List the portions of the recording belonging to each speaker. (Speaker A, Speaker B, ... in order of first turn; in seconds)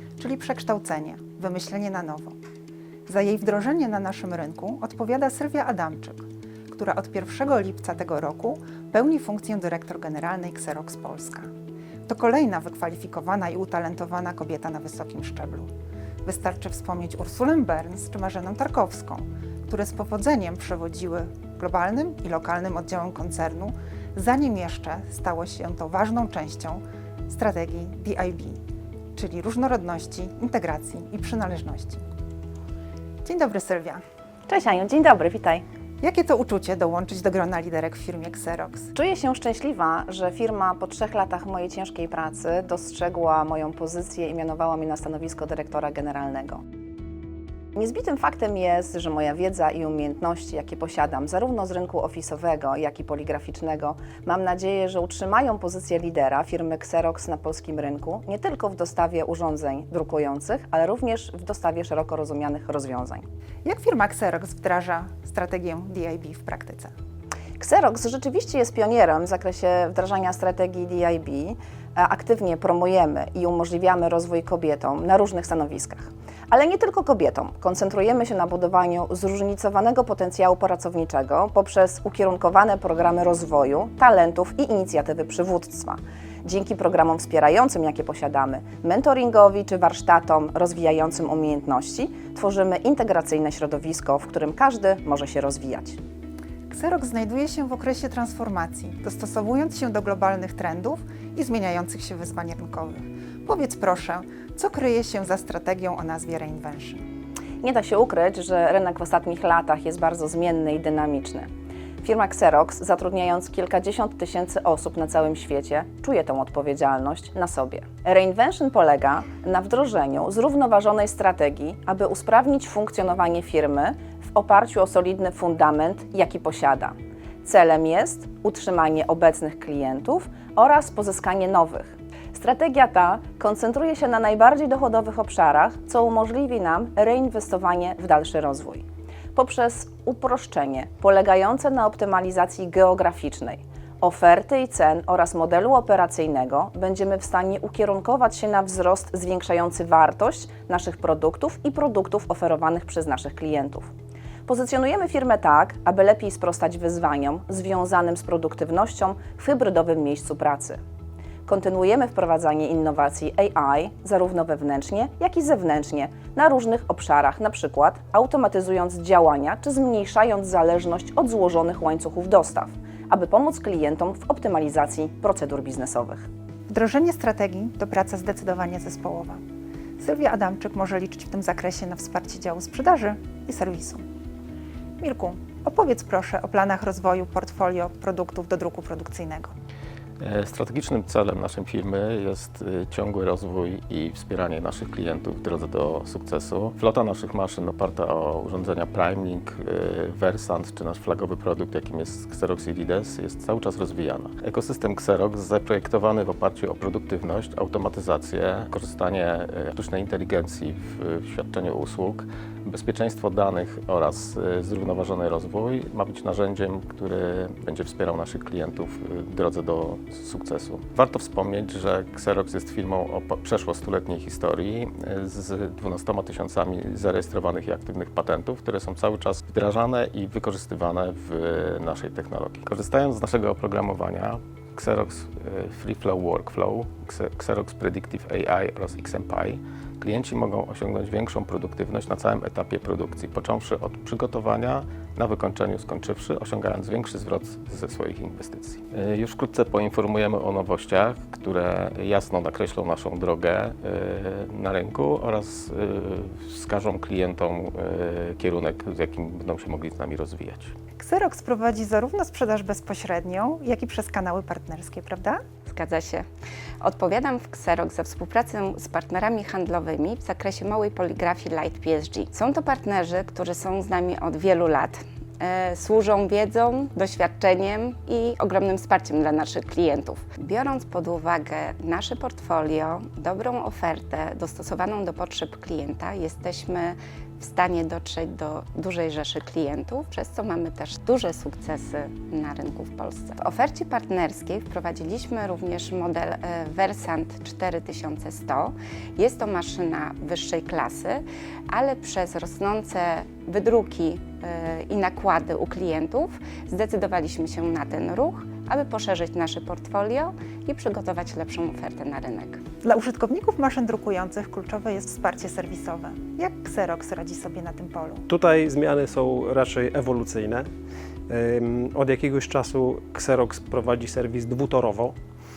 Speaker A: 0.2-2.4, 3.1-11.5, 12.1-15.7, 16.2-28.6, 29.1-32.0, 33.2-34.0, 36.0-38.9, 63.6-66.9, 96.7-107.0, 176.7-179.4, 180.0-184.0, 185.0-189.5, 261.0-265.4, 312.8-318.2
Speaker B: 34.5-35.6, 39.0-46.6, 47.8-63.3, 67.6-96.0, 107.6-111.5, 112.0-153.9, 154.5-160.8, 161.5-176.3
Speaker C: 190.2-260.7
Speaker D: 265.7-266.3, 266.8-312.6
Speaker E: 318.3-320.7, 321.3-325.1